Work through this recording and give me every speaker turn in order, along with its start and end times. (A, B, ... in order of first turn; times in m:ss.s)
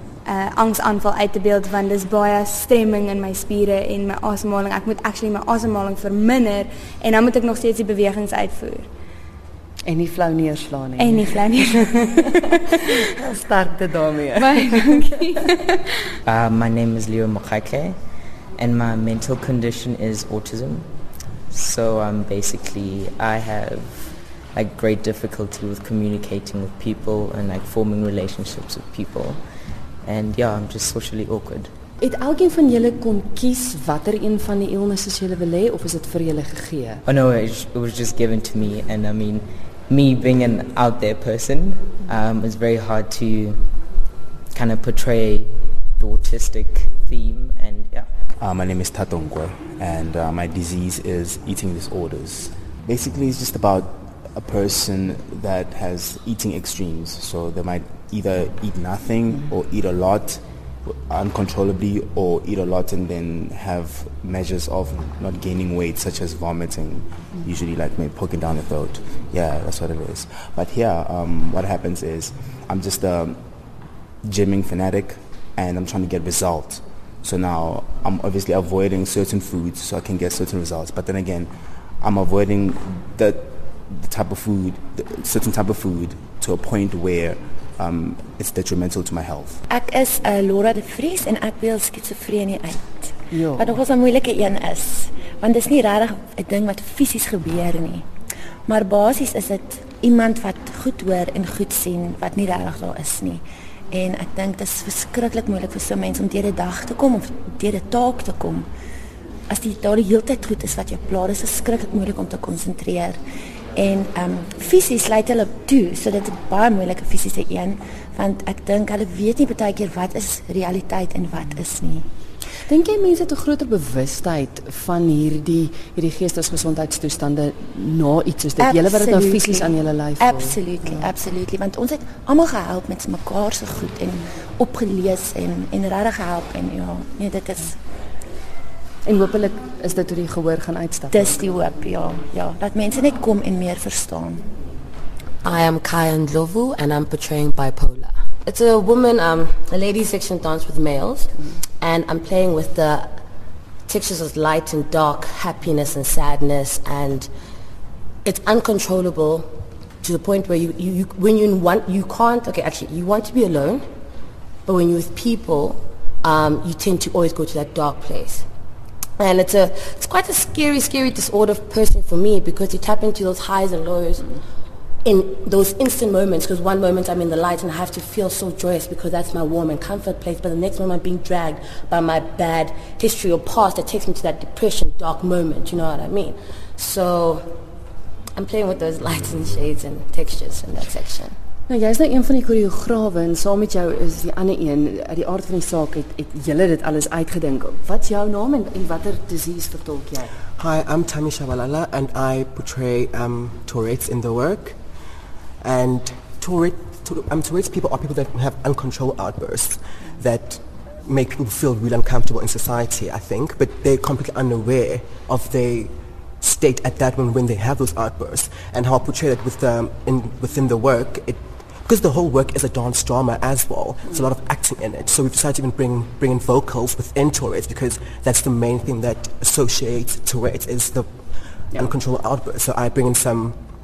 0:00.2-0:08.9 A
0:09.8-0:12.3 B
0:11.0-0:12.6 A
0:12.8-0:15.5 B
0:14.4-0:15.3 A
0:16.2-0:18.0 C
0:18.6-0:20.9 C
0:21.5-0:29.4 C
0:30.0-0:31.7 C
0:32.0-0:37.0 B
0:37.0-0:43.7 C
0:44.5-0:48.1 C
0:48.4-1:29.6 D
1:29.7-1:38.0 E
1:33.3-1:33.8 B
1:38.6-1:48.7 E
1:49.5-1:53.2 E
1:53.7-2:02.0 E
2:02.6-2:11.1 B
2:08.6-2:17.8 E
2:19.0-2:21.4 B
2:21.1-2:24.4 E
2:25.4-2:33.2 F
2:33.8-2:37.3 F
2:38.2-2:43.9 F
2:44.6-2:48.4 F
2:49.2-2:54.4 F
2:55.0-3:07.6 F
3:08.3-3:11.4 F
3:11.7-3:20.3 B
3:20.6-3:24.8 G
3:25.6-3:51.2 G
3:51.7-3:53.6 G